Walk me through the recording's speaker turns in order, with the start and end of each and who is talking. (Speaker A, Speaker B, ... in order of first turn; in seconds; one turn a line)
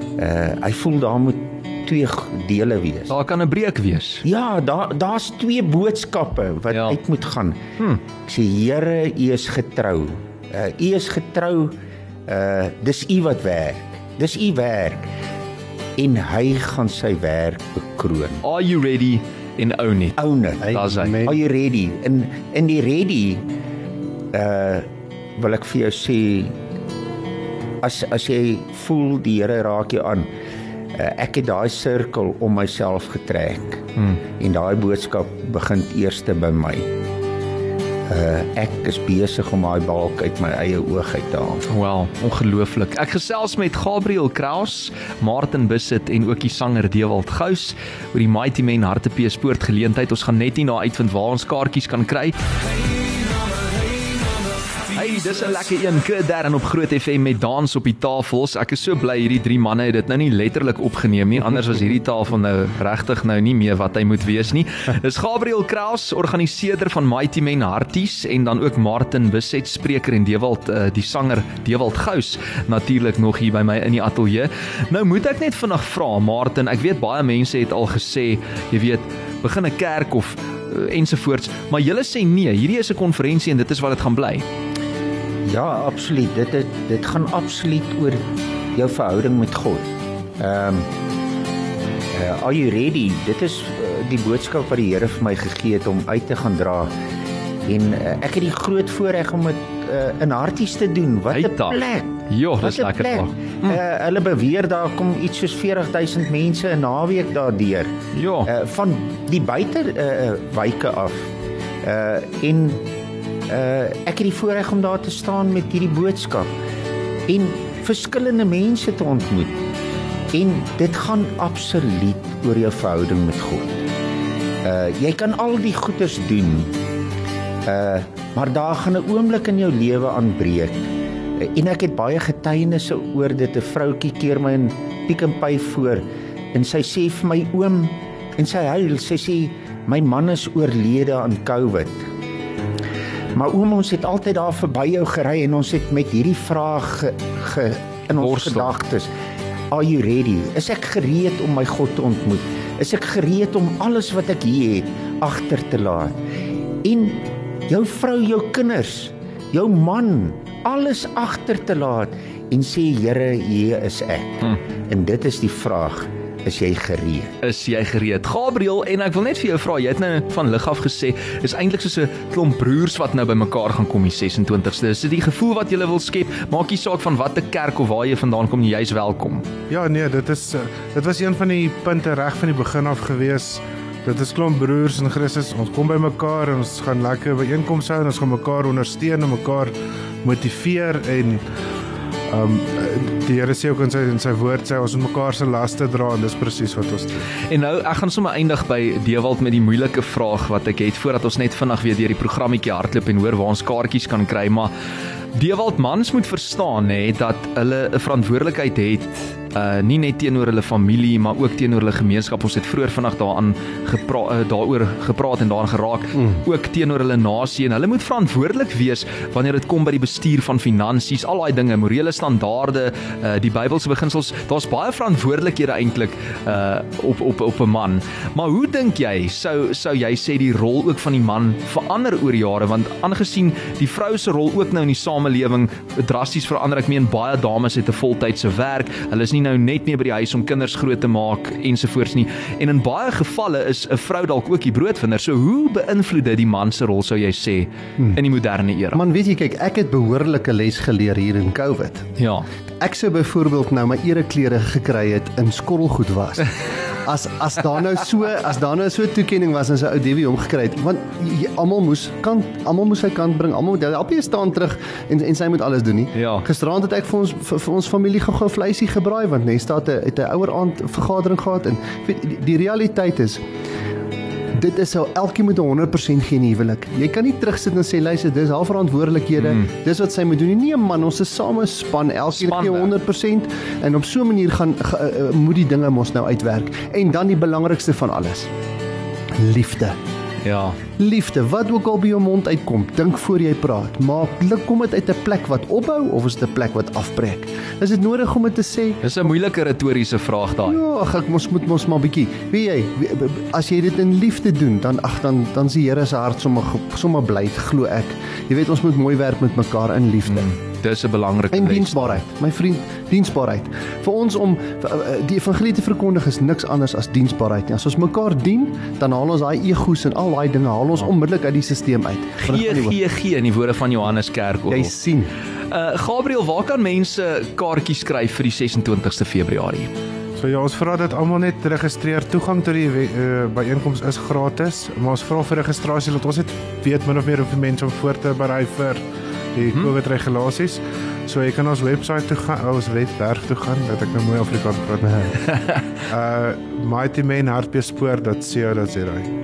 Speaker A: 0.2-3.1
Speaker B: 3.1-4.2
Speaker A: 4.2-7.6
Speaker B: 6.7-7.0
Speaker A: 8.2-11.7
Speaker A: 12.3-15.1
Speaker A: 16.0-18.4
Speaker B: 18.4-21.2
Speaker A: 20.2-23.4
Speaker C: 20.6-21.4
Speaker A: 24.3-26.6
Speaker A: 27.8-30.3
Speaker A: 30.9-33.8
Speaker A: 34.4-36.9
Speaker A: 38.1-41.6
Speaker B: 41.7-52.5
Speaker B: 54.9-84.4
Speaker A: 85.5-90.9
Speaker A: 92.1-96.9
Speaker A: 97.7-107.9
Speaker B: 101.3-101.8
Speaker B: 102.3-103.8
Speaker B: 108.1-108.5
Speaker A: 108.5-111.3
Speaker A: 111.8-112.8
Speaker A: 113.5-116.5
Speaker A: 117.3-119.6
Speaker A: 120.3-123.8
Speaker A: 124.6-126.7
Speaker A: 127.7-130.8
Speaker A: 131.4-142.1
Speaker A: 143.3-149.1
Speaker B: 148.1-148.7
Speaker A: 149.7-156.2
Speaker A: 156.8-167.3
Speaker B: 167.4-179.5
Speaker D: 179.7-189.7
Speaker D: 190.2-191.4
Speaker D: 192.3-197.1
Speaker B: 197.5-204.7
Speaker B: 205.3-249.0
Speaker C: 248.9-252.1
Speaker B: 252.2-252.4
Speaker C: 252.8-273.4
Speaker B: 266.1-266.4
Speaker C: 274.5-288.5
Speaker B: 279.4-279.6
Speaker B: 282.3-282.9
Speaker C: 289.4-290.0
Speaker B: 290.4-290.8
Speaker C: 291.0-299.0
Speaker B: 299.0-300.8
Speaker C: 300.6-310.5
Speaker B: 310.3-312.2
Speaker C: 311.5-323.0
Speaker B: 322.4-324.9
Speaker C: 324.7-325.3
Speaker B: 325.7-329.9
Speaker D: 330.4-339.0
Speaker D: 339.5-345.5
Speaker D: 346.1-349.3